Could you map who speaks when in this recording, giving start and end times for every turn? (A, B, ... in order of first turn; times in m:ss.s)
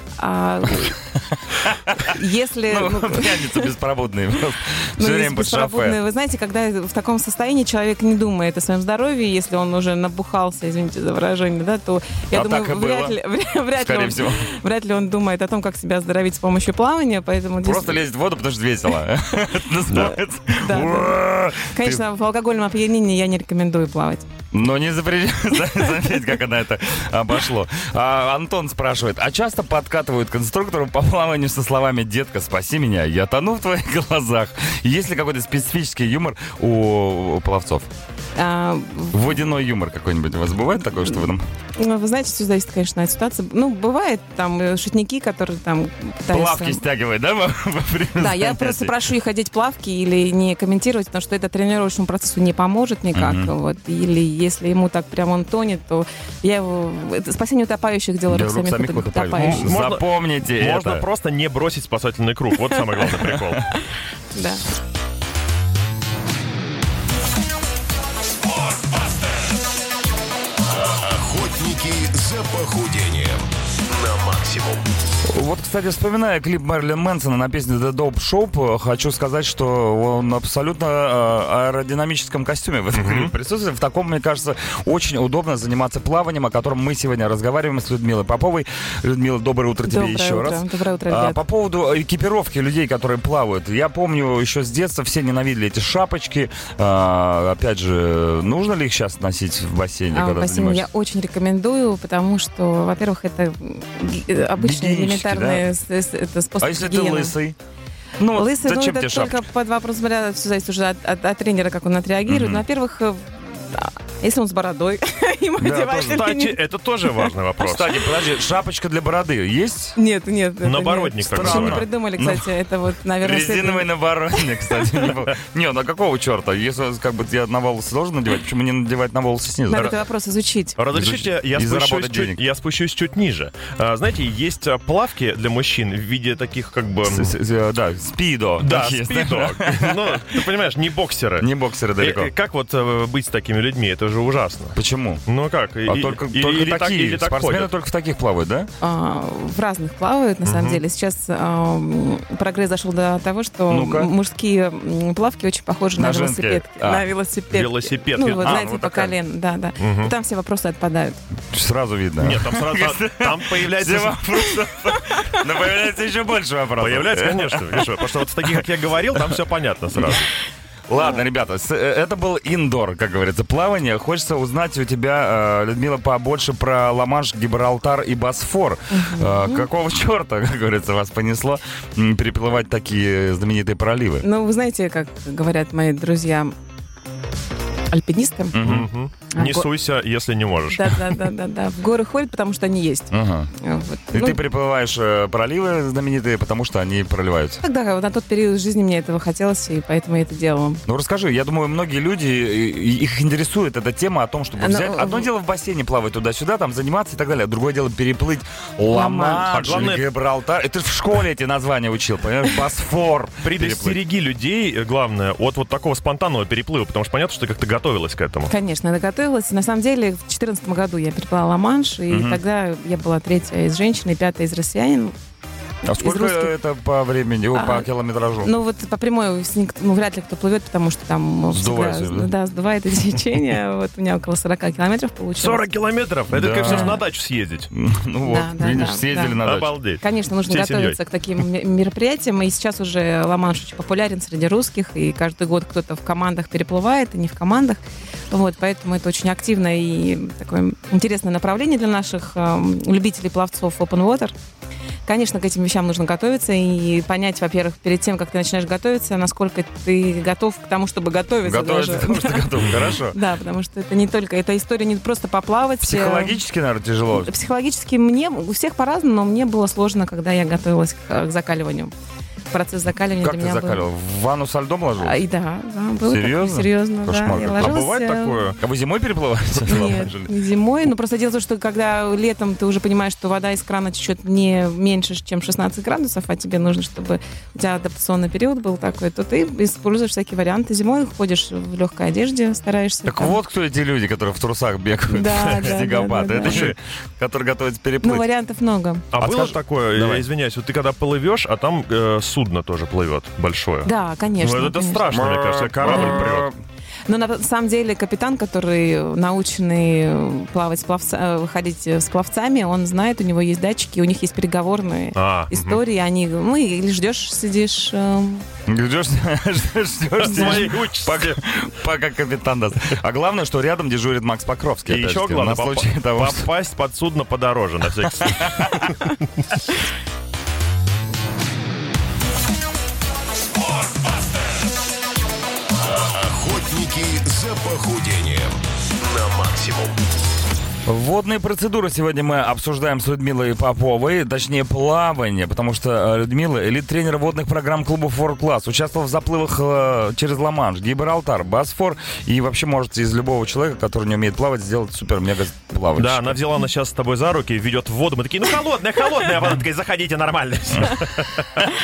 0:00.2-0:01.0 A
0:00.7-0:06.0 B
0:02.0-0:03.7 A
0:05.0-0:18.0 A
0:12.3-0:13.2 B
0:13.8-0:14.5 B
0:17.6-0:22.0 B
0:20.0-0:24.2 A
0:24.5-0:37.9 B
0:38.4-0:39.4 A
0:39.1-0:41.4 B
0:41.8-0:46.8 A
0:46.3-0:48.9 B
0:48.2-0:59.7 A
0:53.1-0:53.5 B
0:58.3-1:01.0 B
0:59.3-1:03.7 C
1:04.3-1:04.6 A
1:10.6-1:14.8 D
1:15.2-1:40.9 B
1:22.9-1:23.3 C
1:29.8-1:31.4 A
1:40.1-1:47.4 A
1:44.6-1:45.7 B
1:46.6-1:47.6 B
1:48.2-1:49.4 B
1:48.3-1:57.3 A
1:52.3-1:52.6 B
1:55.6-1:56.0 B
1:55.7-1:58.0 C
1:57.6-2:00.0 B
2:00.0-2:05.1 A
2:00.6-2:01.8 C
2:01.3-2:02.5 B
2:03.2-2:09.9 B
2:09.7-2:10.8 A
2:10.8-2:17.3 C
2:10.9-2:12.4 B
2:17.0-2:20.4 B
2:18.6-2:24.8 C
2:21.4-2:22.3 B
2:24.7-2:25.2 B
2:25.3-2:27.7 C
2:25.8-2:28.7 B
2:28.8-2:41.2 A
2:30.4-2:30.8 C
2:33.7-2:34.1 B
2:36.0-2:37.1 B
2:37.5-2:38.6 C
2:38.4-2:39.1 B
2:39.8-2:40.1 C
2:41.5-2:49.4 B
2:42.2-2:44.4 C
2:44.7-2:45.4 A
2:46.8-2:50.3 C
2:50.9-3:04.2 B
2:58.9-2:59.7 A
3:04.2-3:06.5 A
3:07.9-3:08.6 A
3:08.5-3:08.9 B
3:08.6-3:11.1 C
3:09.3-3:09.7 A
3:10.7-3:14.4 A
3:13.1-3:13.5 B
3:14.1-3:17.6 B
3:17.6-3:20.8 A
3:20.8-3:34.0 B
3:24.6-3:25.3 A
3:28.9-3:29.7 A
3:29.5-3:30.0 C
3:33.4-3:38.5 C
3:38.5-3:45.1 A
3:42.1-3:42.4 B
3:45.8-3:48.5 B
3:45.9-3:46.5 A
3:47.5-3:47.8 A
3:48.4-3:55.6 A
3:51.5-3:52.3 B
3:55.4-3:57.7 C
3:56.3-3:57.0 B
3:56.6-3:57.0 A
3:57.7-3:59.7 B
3:58.2-3:59.4 A
3:59.4-4:01.0 C
4:00.0-4:14.3 A
4:15.0-4:26.4 A
4:21.4-4:23.2 B
4:25.8-4:27.3 B
4:27.1-4:31.9 A
4:32.5-4:33.8 A
4:33.2-4:35.2 B
4:35.0-4:38.5 A
4:36.0-4:37.8 B
4:37.6-4:38.6 C
4:38.6-4:40.3 B
4:39.6-4:53.4 A
4:53.0-4:58.2 B
4:55.1-4:56.7 A
4:56.4-4:56.8 C
4:58.0-4:59.2 A
4:59.1-5:06.5 C
4:59.2-5:00.2 B
5:03.8-5:05.2 A
5:05.1-5:06.5 B
5:05.8-5:06.2 A
5:07.1-5:18.4 A
5:15.1-5:15.8 C
5:18.7-5:26.5 B
5:20.2-5:21.4 C
5:20.4-5:20.6 A
5:24.9-5:29.1 C
5:28.1-5:28.8 B
5:35.7-5:40.0 D
5:40.8-5:56.4 B
5:56.0-6:01.6 C